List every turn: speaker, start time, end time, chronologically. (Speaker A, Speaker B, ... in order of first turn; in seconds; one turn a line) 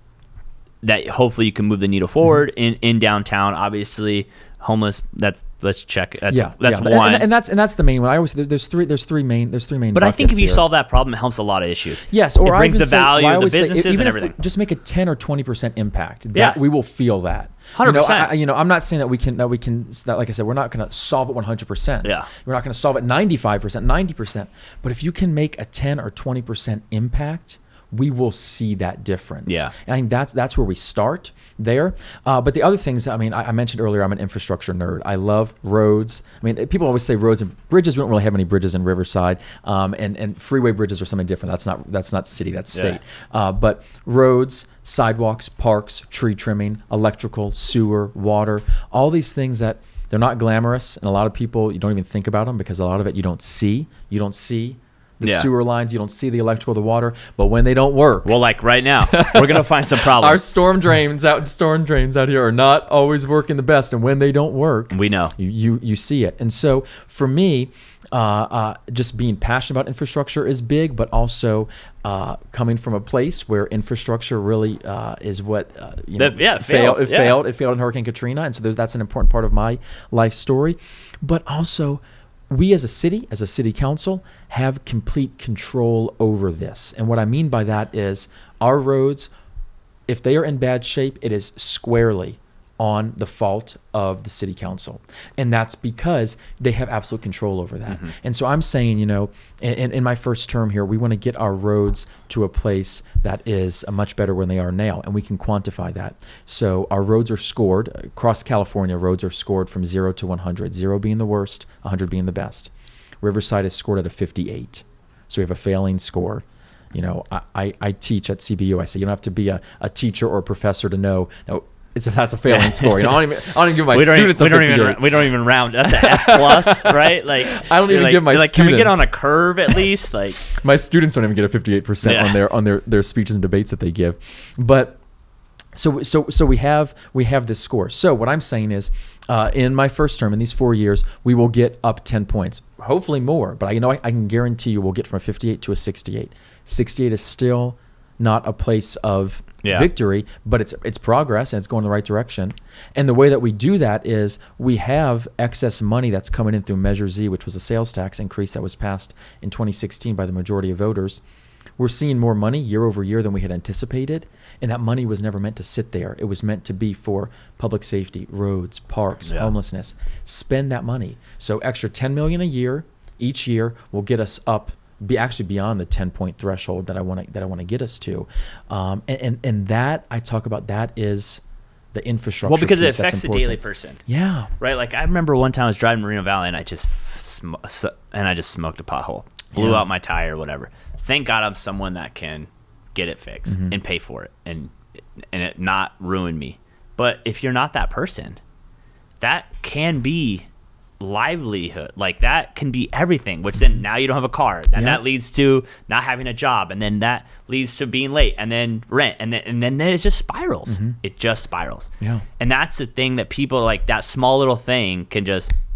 Speaker A: 0.8-7.3
Speaker B: 6.3-10.7
Speaker A: 9.9-14.3
Speaker B: 12.1-58.4
Speaker A: 16.3-16.6
Speaker A: 17.8-18.3
Speaker A: 22.0-22.3
Speaker A: 29.5-29.7
Speaker A: 55.2-55.5
Speaker A: 58.2-60.4
Speaker B: 59.1-89.3
Speaker A: 64.9-65.3
Speaker A: 76.2-77.4
Speaker B: 90.1-125.3
Speaker A: 97.9-98.1
Speaker A: 122.5-123.2
Speaker A: 123.9-130.4
Speaker B: 125.8-129.1
Speaker B: 130.4-135.0
Speaker A: 132.0-132.4
Speaker B: 135.8-161.2
Speaker A: 149.6-149.9
Speaker B: 161.8-184.5
Speaker A: 182.4-184.0
Speaker A: 184.6-198.4
Speaker B: 189.6-189.8
Speaker B: 193.5-193.8
Speaker A: 199.2-200.5
Speaker A: 201.0-215.5
Speaker B: 204.8-205.0
Speaker B: 210.7-211.0